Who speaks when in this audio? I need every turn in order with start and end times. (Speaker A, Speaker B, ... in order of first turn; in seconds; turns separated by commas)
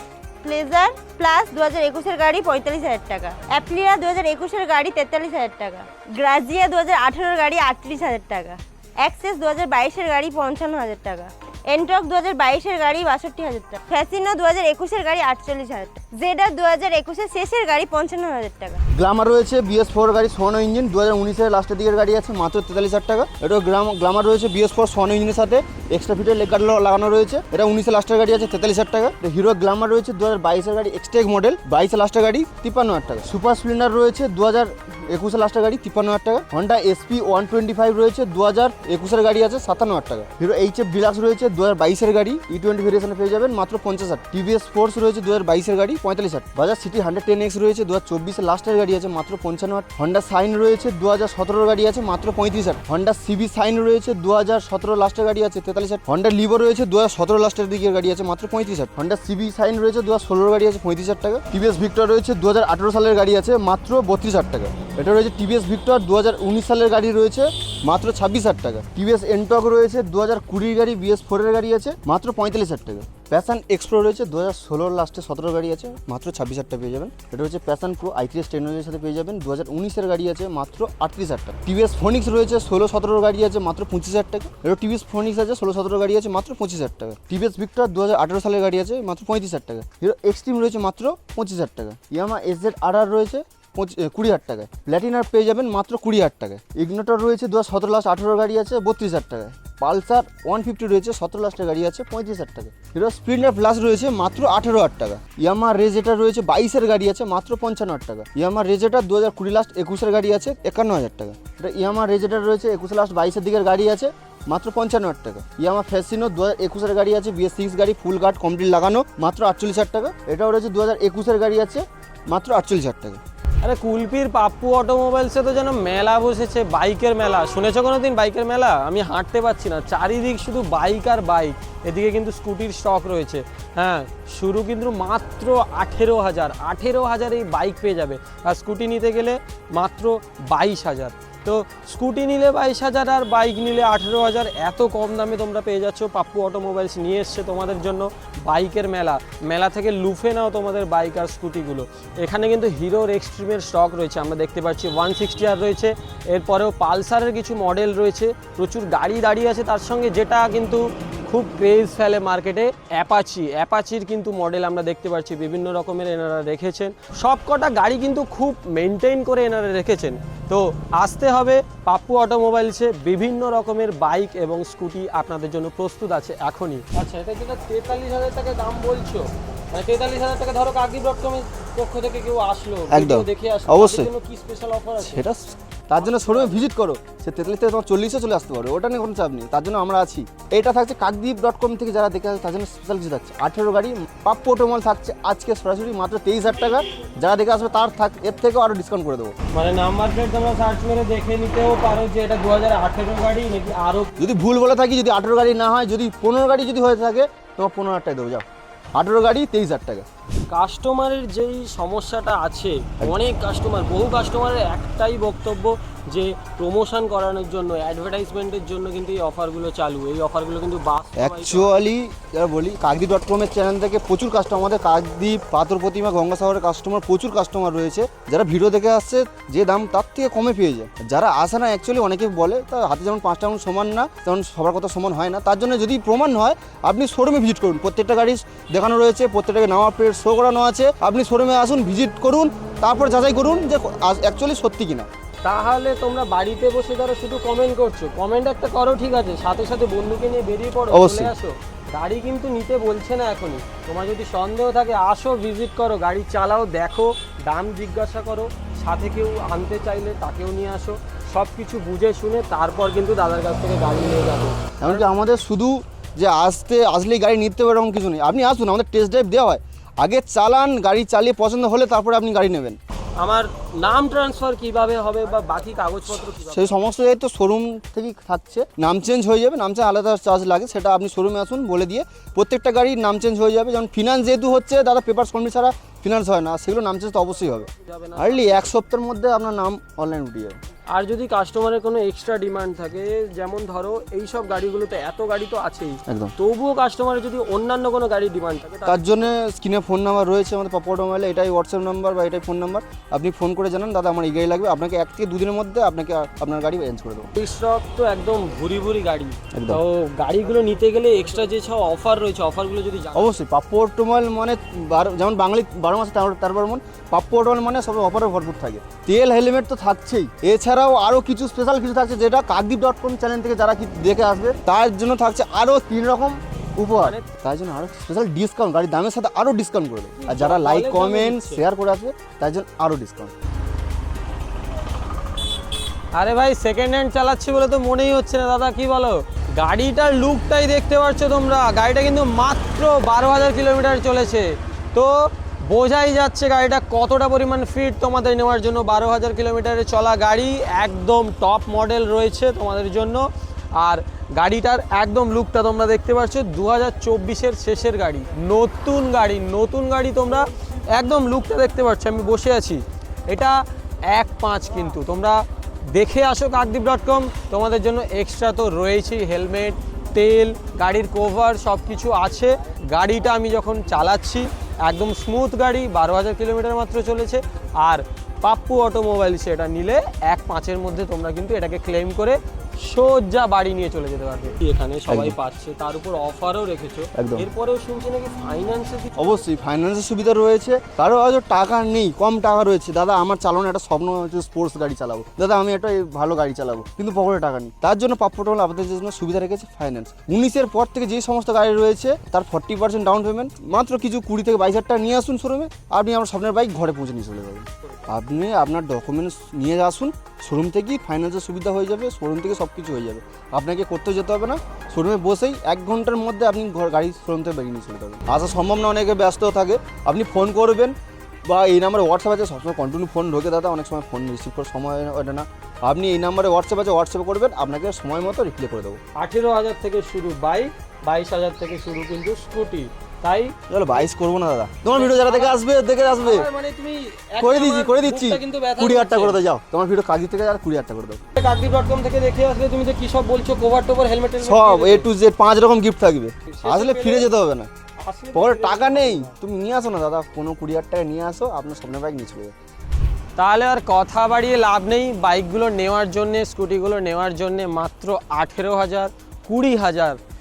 Speaker A: 0.4-18.8, Speaker B: 18.9-123.2, Speaker C: 123.6-185.2, Speaker B: 182.9-184.1, Speaker B: 185.0-199.3, Speaker C: 185.9-186.6, Speaker C: 199.5-204.1, Speaker B: 204.2-208.4, Speaker B: 208.9-210.1, Speaker C: 210.5-221.8, Speaker B: 221.2-245.1, Speaker C: 245.4-265.1, Speaker B: 250.9-251.3, Speaker B: 264.8-272.8, Speaker C: 273.2-276.8, Speaker B: 276.4-290.6, Speaker C: 287.9-288.7, Speaker C: 290.9-299.3, Speaker B: 296.1-296.3, Speaker B: 298.9-307.3, Speaker C: 307.4-313.4, Speaker B: 309.5-309.8, Speaker B: 313.1-333.3, Speaker C: 327.0-327.3, Speaker C: 330.2-331.6, Speaker C: 336.1-389.1, Speaker B: 385.1-385.4, Speaker B: 387.1-387.5, Speaker B: 389.2-420.9, Speaker B: 421.5-429.0, Speaker C: 429.1-434.0, Speaker B: 433.7-436.5, Speaker C: 434.9-435.6, Speaker C: 436.2-439.4, Speaker B: 437.4-441.2, Speaker C: 441.3-445.1, Speaker B: 444.4-447.7, Speaker C: 446.5-447.3, Speaker C: 448.0-449.3, Speaker B: 448.3-452.5, Speaker C: 453.4-460.2